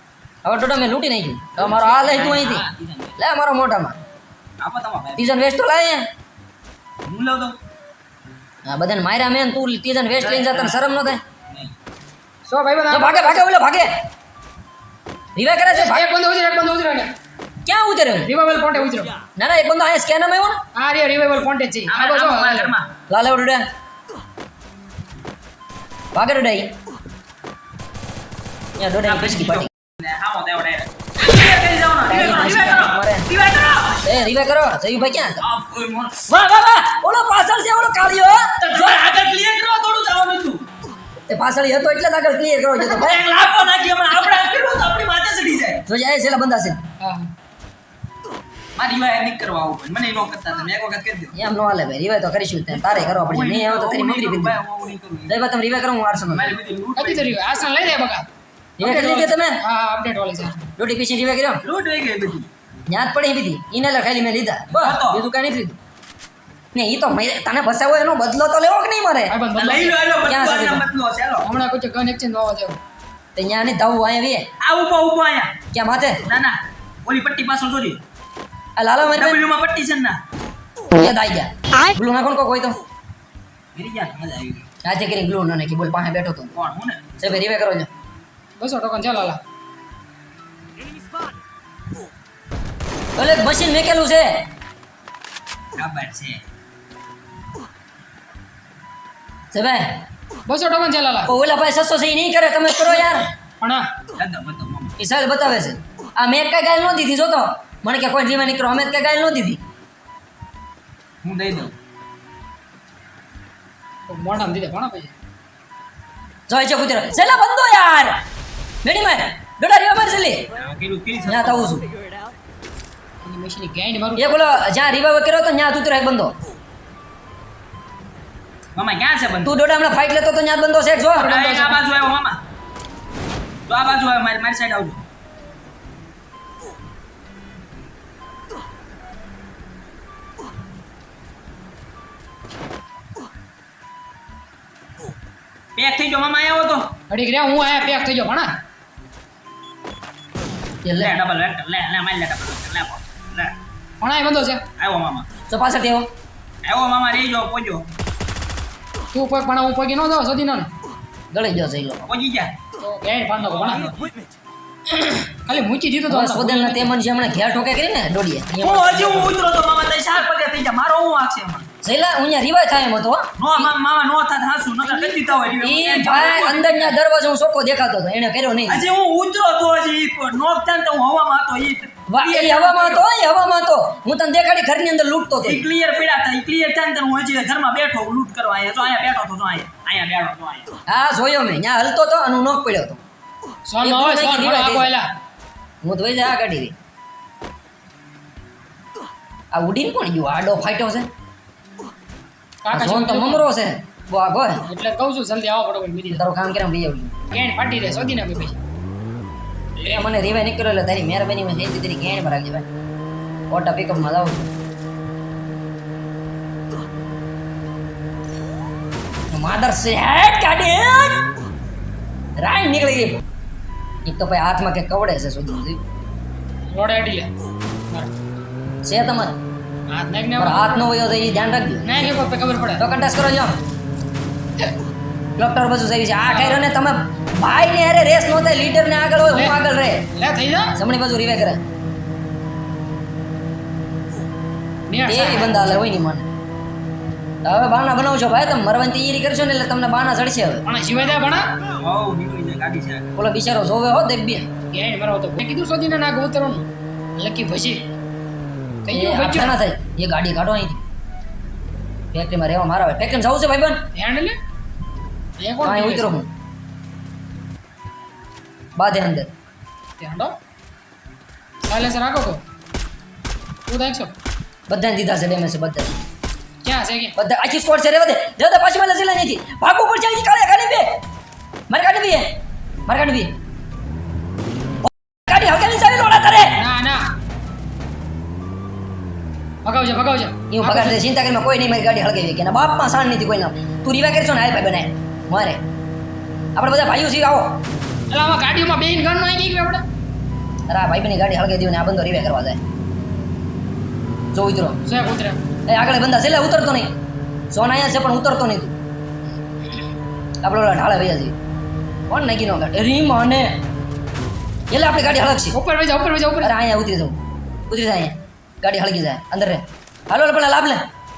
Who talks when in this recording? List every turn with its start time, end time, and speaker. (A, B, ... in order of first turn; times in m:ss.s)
0:00.4-0:02.7 A
0:01.6-0:03.2 B
0:03.2-0:04.0 A
0:04.6-0:05.3 B
0:05.2-0:06.1 A
0:07.1-0:07.6 B
0:08.6-0:11.2 A
0:10.2-0:10.8 B
0:12.5-0:13.4 C
0:12.9-0:14.0 A
0:15.4-0:16.1 A
0:15.7-0:17.1 C
0:17.7-0:18.3 A
0:18.2-0:19.1 C
0:19.4-0:20.6 A
0:20.8-0:22.7 C
0:21.9-0:22.9 B
0:23.1-0:23.7 A
0:26.2-0:26.7 A
0:28.8-0:29.7 A
0:29.0-0:34.1 B
0:32.1-0:33.3 A
0:34.0-0:35.4 A
0:35.4-0:36.3 B
0:36.3-0:38.8 A
0:38.6-0:40.7 B
0:41.3-0:43.3 A
0:42.9-0:45.8 B
0:45.9-0:46.8 A
0:47.0-0:47.3 C
0:48.8-0:51.4 B
0:51.4-0:54.6 A
0:52.7-0:55.4 B
0:55.3-0:56.6 A
0:56.3-0:57.4 B
0:57.0-0:58.3 C
0:58.8-0:59.6 A
0:58.8-1:00.6 C
1:00.8-1:01.6 A
1:01.6-1:02.5 B
1:02.9-1:05.8 A
1:04.7-1:05.2 B
1:06.7-1:09.4 A
1:09.3-1:10.0 C
1:09.6-1:11.5 B
1:10.3-1:10.9 A
1:11.4-1:12.8 C
1:13.4-1:14.5 A
1:14.6-1:15.6 B
1:15.7-1:16.2 A
1:16.2-1:18.0 B
1:18.8-1:19.4 A
1:19.1-1:20.2 B
1:20.9-1:22.8 A
1:23.8-1:24.7 B
1:24.8-1:26.6 A
1:26.5-1:27.1 B
1:27.2-1:27.9 A
1:28.6-1:29.4 C
1:33.2-1:34.5 A
1:35.8-1:36.4 B
1:39.5-1:40.0 A
1:40.5-1:41.3 C
1:41.3-1:43.3 A
1:43.6-1:43.9 C
1:44.2-1:45.0 B
1:45.0-1:49.6 A
1:51.2-1:51.7 B
1:54.1-1:55.1 C
1:56.5-1:58.2 A
1:58.8-2:00.5 A
2:00.5-2:01.8 B
2:01.3-2:01.8 A
2:03.2-2:04.3 C
2:04.2-2:06.4 A
2:08.8-2:09.6 B
2:09.4-2:11.4 A
2:11.1-2:11.8 C
2:11.2-2:12.4 B
2:13.7-2:15.0 B
2:25.8-2:26.9 B
2:27.1-2:28.5 C
2:30.8-2:31.1 A
2:31.0-2:33.5 B
2:34.0-2:34.6 C
2:34.8-2:35.3 B
2:35.5-2:36.1 A
2:36.6-2:37.9 B
2:39.1-2:40.7 C
2:41.3-2:42.1 A
2:42.1-2:42.5 B
2:42.8-2:43.9 C
2:43.7-2:44.0 B
2:44.9-2:46.9 C
2:46.1-2:49.3 A
2:48.6-2:51.7 B
2:51.8-2:53.6 A
2:53.4-2:56.9 B
2:54.8-2:55.2 C
2:55.6-2:58.9 A
2:58.7-3:03.0 B
3:02.1-3:05.7 A
3:05.4-3:10.7 B
3:10.9-3:13.0 A
3:13.7-3:15.1 C
3:13.8-3:14.9 A
3:15.8-3:16.7 A
3:19.5-3:21.1 A
3:22.6-3:23.5 C
3:22.7-3:24.6 A
3:24.7-3:26.2 C
3:26.1-3:27.1 A
3:27.3-3:28.6 C
3:29.8-3:32.7 A
3:33.5-3:34.5 A
3:39.3-3:41.3 A
3:42.4-3:43.2 A
3:44.0-3:45.8 A
3:46.7-3:47.3 C
3:48.8-3:49.4 A
3:49.9-3:50.8 C
3:50.4-3:52.0 A
3:51.8-3:52.8 C
3:52.8-3:53.6 A
3:55.4-4:00.0 A
3:56.3-3:56.6 C
3:59.3-3:59.6 C
4:00.1-4:00.8 C
4:00.8-4:01.6 A
4:04.9-4:05.7 C
4:05.1-4:06.3 A
4:07.4-4:10.6 A
4:10.7-4:11.6 C
4:11.8-4:13.1 B
4:13.2-4:14.5 A
4:14.7-4:17.9 C
4:18.8-4:19.6 C
4:18.9-4:20.8 A
4:22.1-4:23.9 A
4:23.9-4:24.4 C
4:25.4-4:26.2 C
4:25.6-4:26.3 A
4:28.8-4:29.3 A
4:30.0-4:30.4 C
4:31.7-4:32.4 C
4:33.7-4:34.1 C
4:34.7-4:35.9 A
4:36.6-4:37.2 C
4:37.2-4:41.0 A
4:41.7-4:42.4 A
4:42.9-4:43.4 A
4:44.8-4:46.6 A
4:46.6-4:47.1 C
4:49.6-4:51.0 C
4:50.5-4:55.6 A
4:56.6-4:57.6 A
4:58.1-4:59.8 C
5:00.7-5:02.6 A
5:04.3-5:04.8 A
5:04.8-5:05.4 C
5:05.7-5:06.9 A
5:07.5-5:08.7 A
5:10.4-5:11.3 A
5:12.1-5:13.5 A
5:14.7-5:15.6 A
5:15.5-5:16.5 C
5:16.4-5:17.2 A
5:17.7-5:20.9 A